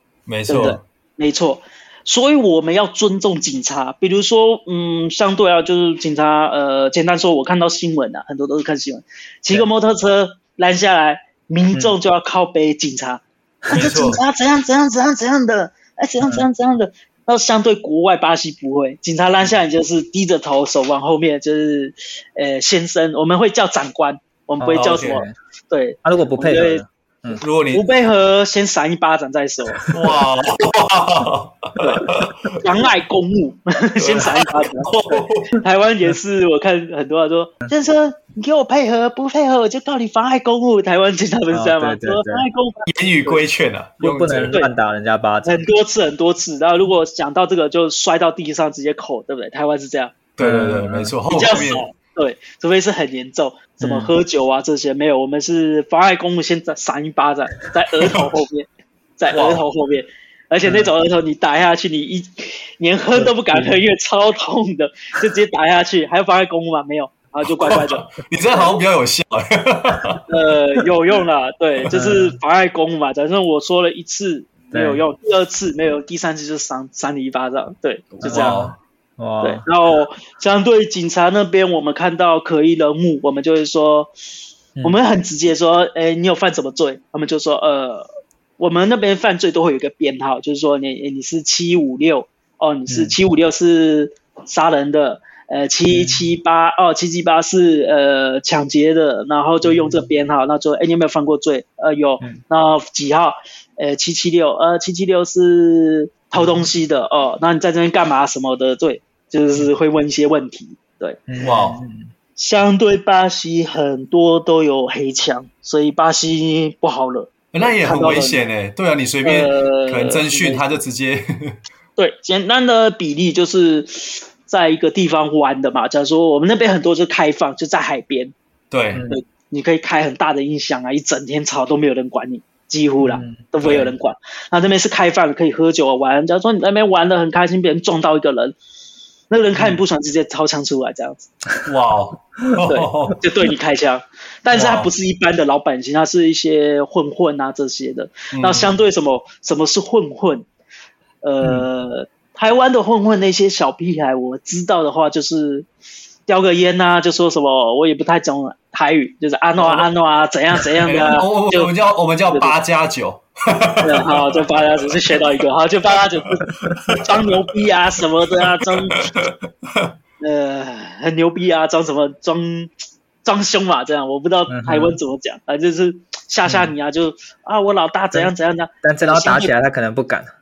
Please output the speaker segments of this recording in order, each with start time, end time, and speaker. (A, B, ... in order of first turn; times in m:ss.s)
0:00.3-0:00.8 A
0:00.5-0:26.8 B
0:00.5-0:00.8 C
0:13.7-0:14.2 A
0:16.2-0:16.5 C
0:24.6-0:25.3 C
0:24.7-0:25.2 A
0:26.0-0:27.4 C
0:27.4-0:27.8 A
0:27.7-0:29.8 B
0:29.9-0:32.5 A
0:31.8-0:43.4 B
0:34.0-0:35.5 A
0:41.5-0:42.5 C
0:42.9-0:44.6 A
0:44.0-0:45.7 C
0:45.4-0:50.2 B
0:50.4-0:51.9 A
0:50.4-0:51.1 C
0:51.3-1:08.8 B
0:53.8-0:54.1 C
0:59.3-0:59.6 A
1:03.2-1:03.8 C
1:07.6-1:10.2 A
1:10.3-1:18.6 B
1:11.9-1:12.4 C
1:14.7-1:15.0 C
1:18.2-1:18.8 A
1:18.2-1:19.6 C
1:19.4-1:24.1 B
1:24.8-1:28.1 B
1:28.6-1:51.2 B
1:32.9-1:33.2 C
1:35.9-1:36.3 C
1:39.6-1:40.1 C
1:46.4-1:46.6 C
1:51.3-1:52.1 C
1:51.4-1:51.8 A
1:52.4-1:58.4 B
1:57.5-2:01.6 A
1:59.2-2:00.6 B
2:02.0-2:08.3 B
2:08.7-2:09.0 A
2:08.9-2:09.2 C
2:09.1-2:18.6 B
2:13.0-2:13.4 C
2:13.6-2:13.9 A
2:19.3-2:21.3 B
2:21.7-2:23.2 A
2:22.7-2:30.5 B
2:24.5-2:24.9 A
2:28.3-2:28.8 A
2:31.2-2:35.7 B
2:36.3-2:41.7 B
2:39.6-2:39.9 A
2:40.8-2:45.2 A
2:42.3-2:42.6 B
2:43.8-2:46.5 B
2:46.9-2:47.3 A
2:47.0-2:49.1 B
2:49.2-2:49.9 A
2:50.2-2:52.7 B
2:53.2-2:59.5 B
2:54.5-2:55.0 C
2:56.5-2:56.7 C
2:58.8-3:00.3 C